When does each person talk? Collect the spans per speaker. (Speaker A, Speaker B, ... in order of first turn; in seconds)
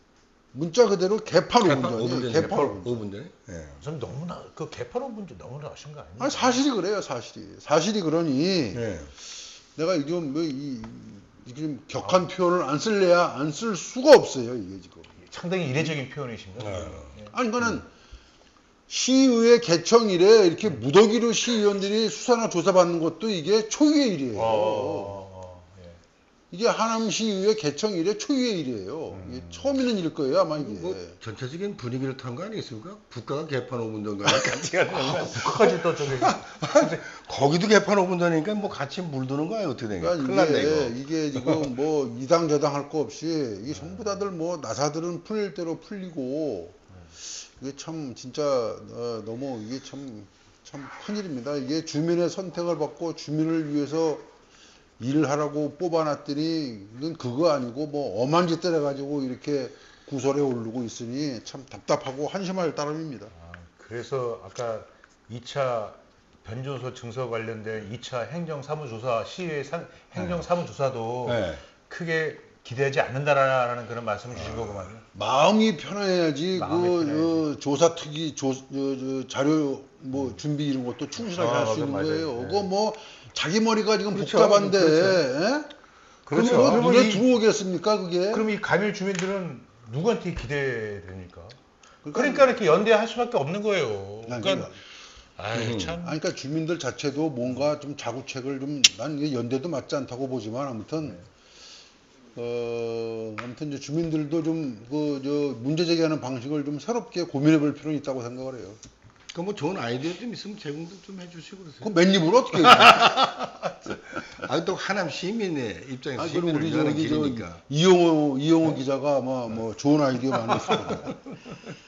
Speaker A: 0.5-3.1, 6.2-8.8, 9.8-15.1, 17.3-17.9, 18.9-25.2, 26.5-31.2, 40.0-54.3, 55.0-63.3, 75.1-85.7, 86.3-88.5, 92.1-92.5, 94.3-94.8, 96.0-101.2, 102.3-108.8, 111.8-113.0, 116.2-121.2
Speaker B: 1.6-3.8, 8.7-9.1, 16.6-17.1, 30.6-41.6, 70.1-70.5, 71.2-71.7, 74.3-74.9, 84.1-85.2, 86.3-87.0, 95.5-96.0, 109.3-111.9, 112.7-117.6, 120.7-121.1
Speaker C: 2.3-2.8, 3.8-6.6, 12.0-12.3, 15.2-17.6, 24.3-26.0, 29.1-29.8, 34.3-37.0, 43.7-44.2, 63.3-75.0, 76.5-77.5, 81.2-82.7, 86.3-87.3, 88.3-94.8, 95.4-96.2, 112.9-113.2